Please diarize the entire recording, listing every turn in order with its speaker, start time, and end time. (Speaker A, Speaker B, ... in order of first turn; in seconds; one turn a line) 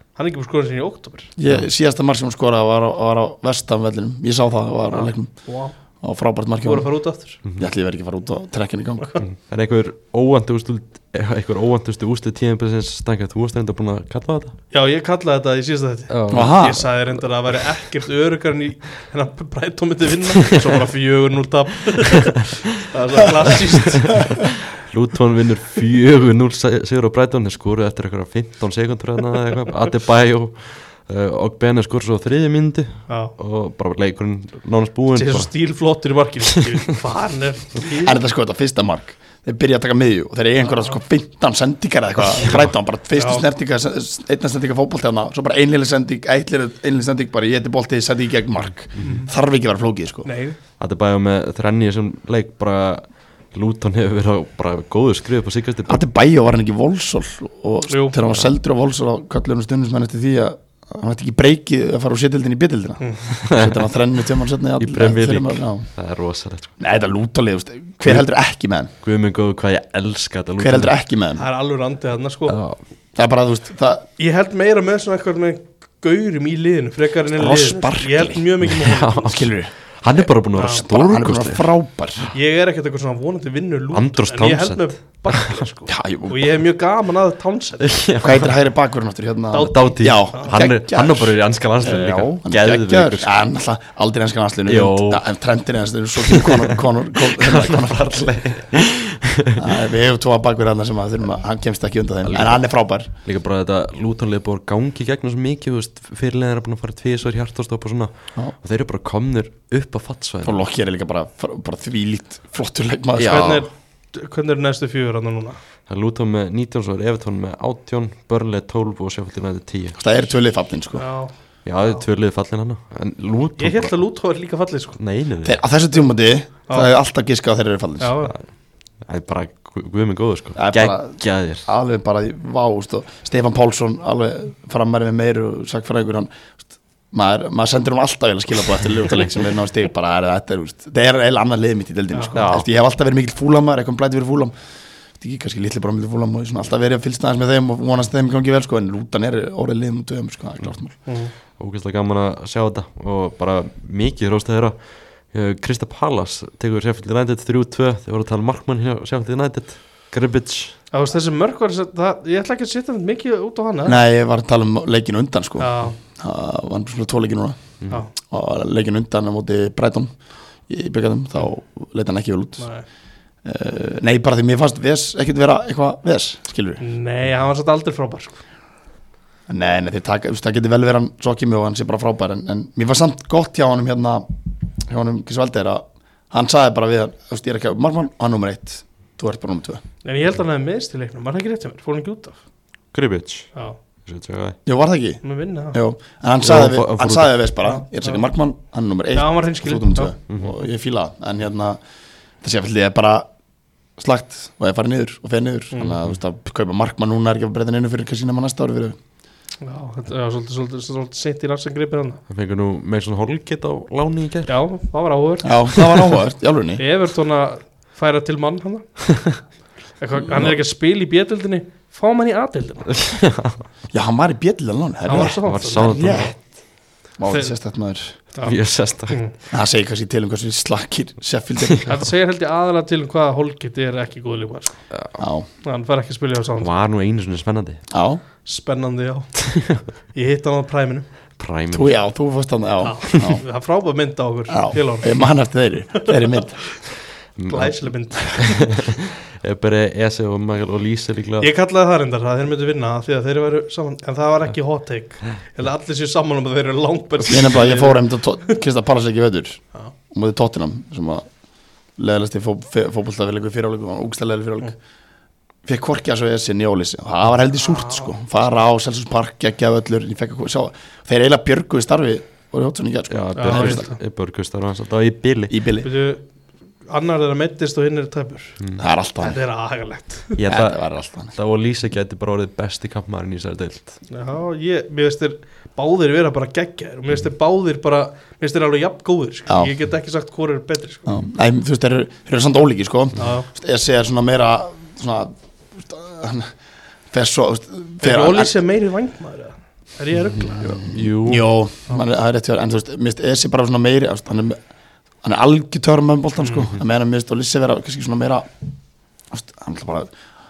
Speaker A: 0.2-1.3
Speaker B: 1.4-5.5
Speaker A: 4.9-5.8
Speaker B: 6.0-6.9
Speaker A: 6.6-7.4
Speaker C: 7.4-7.7
Speaker B: 7.6-9.2
Speaker C: 9.2-14.6
Speaker A: 14.7-24.3
Speaker C: 16.1-16.9
Speaker B: 16.3-16.9
Speaker C: 23.9-35.5
Speaker A: 33.1-33.4
Speaker A: 35.1-38.2
Speaker B: 37.9-50.3
Speaker A: 40.7-40.9
Speaker C: 42.4-42.7
Speaker A: 43.1-43.5
Speaker C: 49.0-49.2
Speaker A: 49.0-49.3
Speaker A: 50.2-50.6
Speaker C: 50.8-56.0
Speaker B: 55.9-65.9
Speaker A: 57.9-58.2
Speaker C: 63.4-63.9
Speaker C: 64.8-66.7
Speaker B: 66.8-68.9
Speaker C: 69.0-70.9
Speaker B: 70.6-71.4
Speaker A: 71.4-72.6
Speaker C: 72.5-72.8
Speaker B: 73.2-74.1
Speaker A: 74.2-79.4
Speaker B: 77.3-78.5
Speaker C: 78.6-81.7
Speaker B: 79.2-82.3
Speaker A: 80.5-80.8
Speaker A: 82.3-88.0
Speaker C: 83.9-85.6
Speaker B: 85.9-86.6
Speaker C: 87.8-88.6
Speaker B: 88.2-98.3
Speaker A: 89.5-90.5
Speaker C: 89.5-93.3
Speaker C: 94.7-95.2
Speaker C: 96.2-99.7
Speaker B: 99.6-103.1
Speaker C: 102.2-102.7
Speaker C: 103.2-110.6
Speaker B: 110.4-113.7
Speaker C: 113.2-113.7
Speaker A: 113.2-115.6
Speaker C: 115.9-120.0
Speaker B: 120.0-121.0
Speaker A: 121.0-121.3
Speaker C: 121.7-124.0
Speaker A: 123.6-125.0
Speaker C: 125.0-125.6
Speaker B: 125.4-128.2
Speaker A: 128.0-128.3
Speaker C: 129.0-131.7
Speaker B: 130.6-136.6
Speaker B: 137.1-144.5
Speaker C: 142.3-142.7
Speaker B: 145.2-151.0
Speaker A: 151.1-151.3
Speaker C: 151.6-160.8
Speaker A: 160.9-164.0
Speaker B: 163.8-167.6
Speaker A: 165.6-166.0
Speaker B: 168.2-170.1
Speaker B: 170.7-172.7
Speaker A: 172.6-172.9
Speaker B: 173.4-176.8
Speaker A: 176.8-178.4
Speaker B: 179.5-189.8
Speaker A: 190.0-192.4
Speaker C: 192.9-193.5
Speaker C: 194.1-194.6
Speaker B: 194.7-201.8
Speaker A: 195.2-195.8
Speaker C: 196.4-197.4
Speaker A: 197.6-198.2
Speaker A: 199.1-200.2
Speaker C: 200.3-200.6
Speaker B: 202.4-203.3
Speaker B: 204.0-209.0
Speaker A: 205.7-206.0
Speaker A: 209.6-212.2
Speaker C: 212.3-214.5
Speaker A: 214.5-215.8
Speaker B: 215.4-216.8
Speaker C: 215.8-216.1
Speaker A: 216.8-219.4
Speaker A: 220.0-223.0
Speaker B: 220.2-220.6
Speaker C: 222.9-223.6
Speaker B: 223.9-226.3
Speaker A: 225.1-226.3
Speaker C: 225.1-226.3
Speaker B: 227.2-228.2
Speaker A: 227.3-227.5
Speaker C: 228.4-229.2
Speaker B: 229.5-231.9
Speaker A: 231.9-234.8
Speaker C: 234.9-235.2
Speaker B: 235.2-235.5
Speaker A: 235.6-236.7
Speaker C: 236.6-237.8
Speaker B: 237.9-238.2
Speaker A: 238.4-239.5
Speaker C: 239.4-239.8
Speaker A: 240.1-241.1
Speaker C: 241.4-242.0
Speaker B: 241.7-243.4
Speaker A: 242.8-245.2
Speaker B: 244.5-246.7
Speaker C: 247.4-251.5
Speaker A: 247.5-248.8
Speaker A: 251.4-258.6
Speaker B: 257.3-261.2
Speaker B: 262.0-264.8
Speaker B: 265.6-273.9
Speaker A: 267.6-268.1
Speaker C: 273.1-275.6
Speaker A: 273.4-274.0
Speaker B: 275.5-275.9
Speaker A: 275.8-276.2
Speaker A: 276.9-278.6
Speaker C: 278.6-278.9
Speaker B: 278.8-279.4
Speaker A: 279.2-280.4
Speaker C: 280.4-284.0
Speaker B: 280.5-281.4
Speaker A: 284.1-291.1
Speaker B: 289.5-289.7
Speaker B: 291.1-296.5
Speaker A: 293.2-293.5
Speaker B: 297.1-298.6
Speaker A: 298.0-300.8
Speaker B: 300.6-304.6
Speaker C: 300.6-301.5
Speaker B: 305.2-308.5
Speaker A: 306.4-306.7
Speaker B: 309.3-310.1